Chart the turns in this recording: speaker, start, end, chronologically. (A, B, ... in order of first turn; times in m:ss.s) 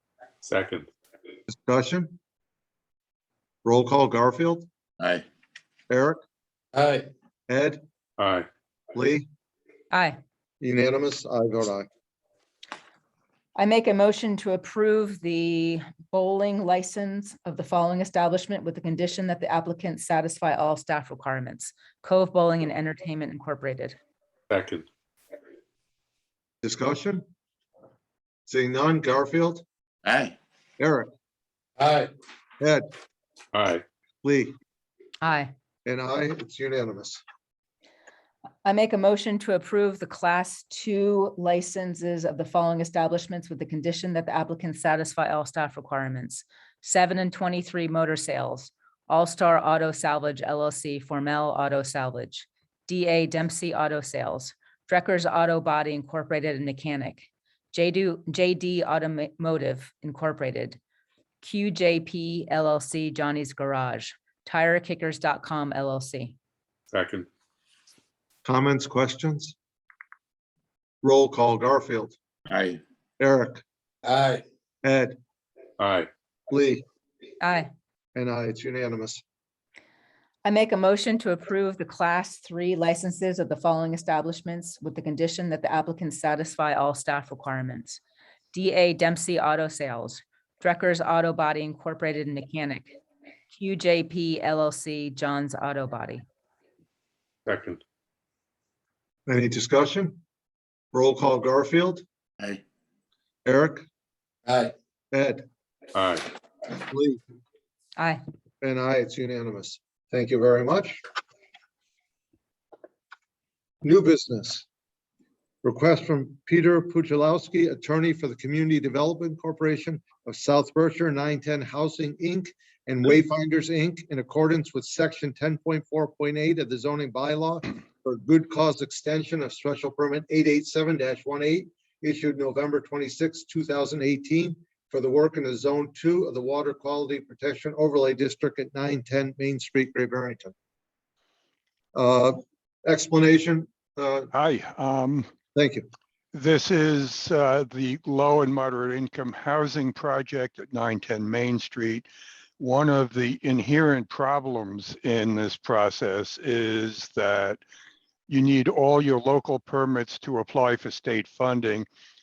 0:00.4-0:00.9 A
0:01.5-0:02.1 B
0:03.6-0:04.7 B
0:05.9-0:06.2 B
0:06.7-0:07.1 C
0:07.5-0:07.8 B
0:08.2-0:08.5 A
0:08.9-0:09.2 B
0:09.9-0:10.2 D
0:10.6-0:11.9 B
0:13.6-0:24.0 D
0:24.5-0:24.8 A
0:26.6-0:27.2 B
0:28.5-0:29.6 B
0:30.0-0:30.3 C
0:30.8-0:31.1 B
0:31.8-0:32.1 C
0:32.6-0:32.8 B
0:33.5-0:33.8 A
0:34.2-0:34.5 B
0:35.2-0:35.5 D
0:35.8-0:37.2 B
0:38.6-1:00.8 D
1:01.4-1:06.4 D
1:06.9-1:07.3 A
1:08.4-1:09.5 B
1:11.0-1:12.2 B
1:12.5-1:12.8 C
1:13.2-1:13.6 B
1:14.0-1:14.4 C
1:14.8-1:15.2 B
1:15.8-1:16.1 A
1:16.5-1:16.8 B
1:17.4-1:17.7 D
1:18.1-1:19.2 B
1:20.4-1:28.0 D
1:28.5-1:33.0 D
1:33.5-1:36.2 D
1:37.4-1:37.8 A
1:39.3-1:40.2 B
1:40.9-1:42.0 B
1:43.4-1:43.8 B
1:44.5-1:44.7 C
1:45.1-1:45.4 B
1:45.9-1:46.3 A
1:46.7-1:47.2 B
1:48.0-1:48.2 D
1:48.6-1:51.0 B
1:53.8-1:54.6 B
1:55.6-2:20.5 B
2:21.9-2:24.3 B
2:24.3-2:25.3 E
2:25.5-2:25.9 B
2:26.3-2:32.1 E
2:32.6-2:37.6 E
2:38.3-2:41.9 E